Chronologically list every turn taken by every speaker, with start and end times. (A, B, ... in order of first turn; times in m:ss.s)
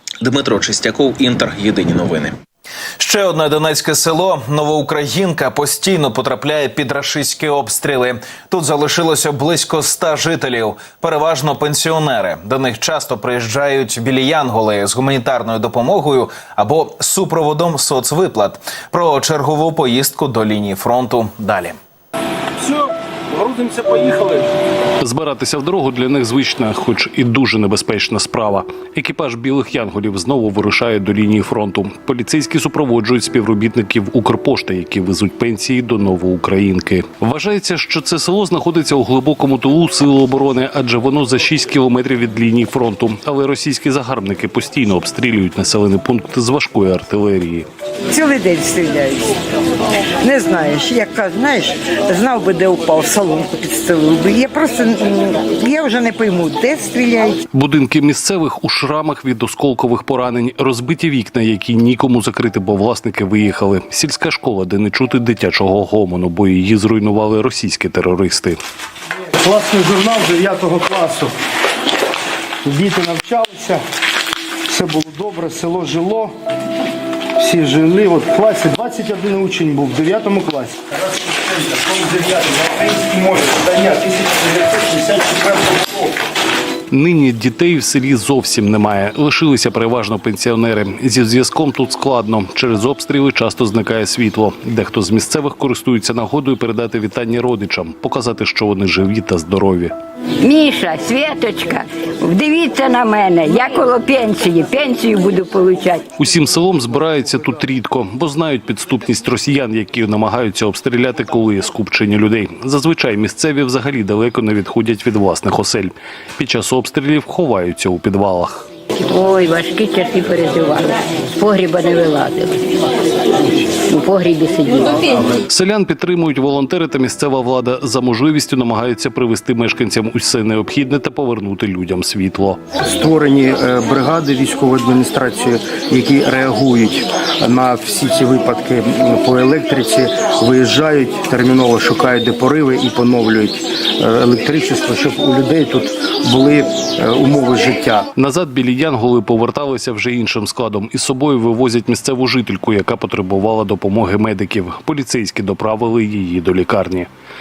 0:00.2-0:02.4 A
0:03.0-0:21.8 A
0:25.0-0:47.7 B
0:48.1-0:49.4 C
0:50.2-0:57.4 C
0:57.5-1:08.6 B
1:09.2-1:11.3 D
1:12.6-1:13.8 D
1:14.7-1:16.3 D
1:17.4-1:26.2 D
1:26.9-1:39.9 B
1:40.4-1:46.1 E
1:46.2-1:58.7 B
1:59.0-2:02.8 E
2:03.5-2:05.3 E
2:05.4-2:12.6 B
2:12.8-2:28.1 D
2:28.2-2:37.1 B